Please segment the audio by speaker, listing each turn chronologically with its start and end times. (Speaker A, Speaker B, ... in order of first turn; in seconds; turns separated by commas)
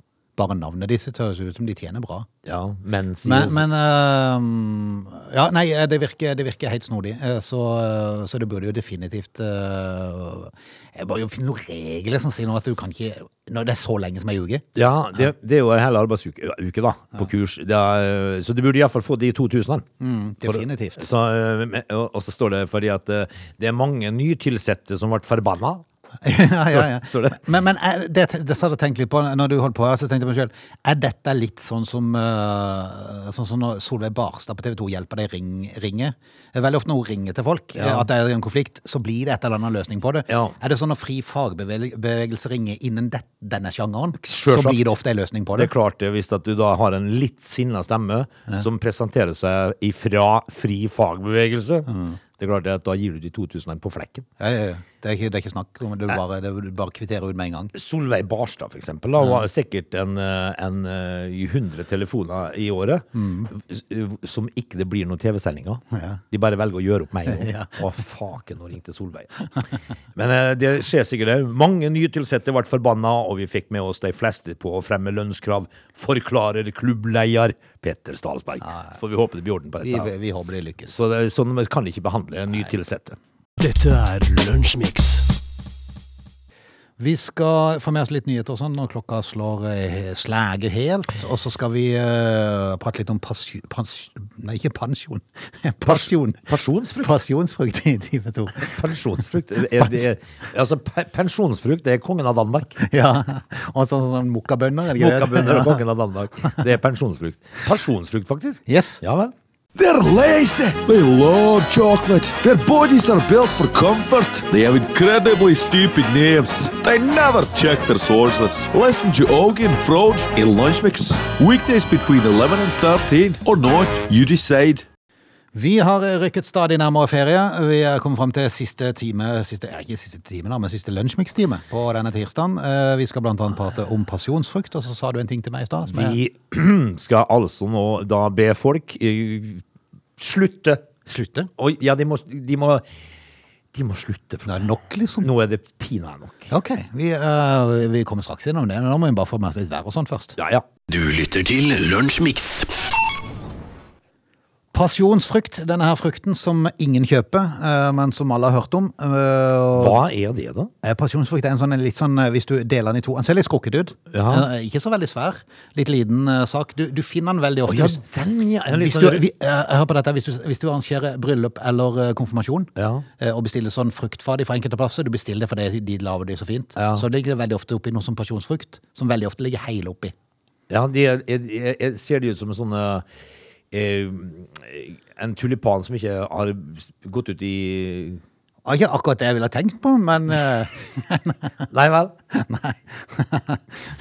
Speaker A: 0.4-2.3, Speaker B: 2.4-3.6, Speaker A: 3.2-14.6, Speaker B: 14.7-19.9, Speaker A: 20.0-21.1, Speaker B: 20.4-25.8, Speaker A: 26.2-45.7, Speaker B: 26.7-27.4, Speaker B: 37.8-38.1, Speaker B: 40.3-40.5, Speaker B: 44.2-44.8, Speaker B: 45.5-54.3, Speaker A: 51.9-52.2, Speaker A: 54.4-57.7, Speaker B: 57.7-69.3, Speaker A: 59.2-59.4, Speaker A: 63.1-63.5, Speaker A: 65.9-66.2, Speaker A: 67.2-67.8, Speaker B: 70.1-80.1, Speaker A: 79.8-81.0, Speaker B: 80.9-83.2, Speaker C: 83.6-85.3, Speaker A: 87.0-96.5, Speaker B: 95.8-97.1, Speaker A: 97.0-99.0, Speaker B: 98.6-102.8, Speaker A: 99.6-100.1, Speaker A: 102.8-105.8, Speaker B: 104.9-109.3, Speaker A: 108.7-109.0, Speaker D: 109.7-124.8, Speaker A: 125.5-136.2, Speaker B: 135.9-139.6, Speaker B: 140.2-140.8, Speaker A: 141.1-141.5, Speaker B: 141.6-142.8, Speaker B: 143.7-144.5, Speaker A: 144.4-145.3, Speaker B: 145.2-146.5, Speaker A: 146.5-150.3, Speaker B: 150.4-150.7, Speaker C: 150.9-152.8, Speaker A: 154.7-160.0, Speaker B: 159.7-160.7, Speaker A: 160.8-168.0, Speaker B: 164.1-164.5, Speaker B: 167.7-169.2, Speaker A: 168.7-180.1, Speaker B: 172.8-173.1, Speaker B: 176.8-177.0, Speaker B: 180.7-183.1, Speaker B: 183.7-188.2, Speaker A: 188.6-191.5, Speaker B: 191.7-192.1, Speaker A: 192.3-193.6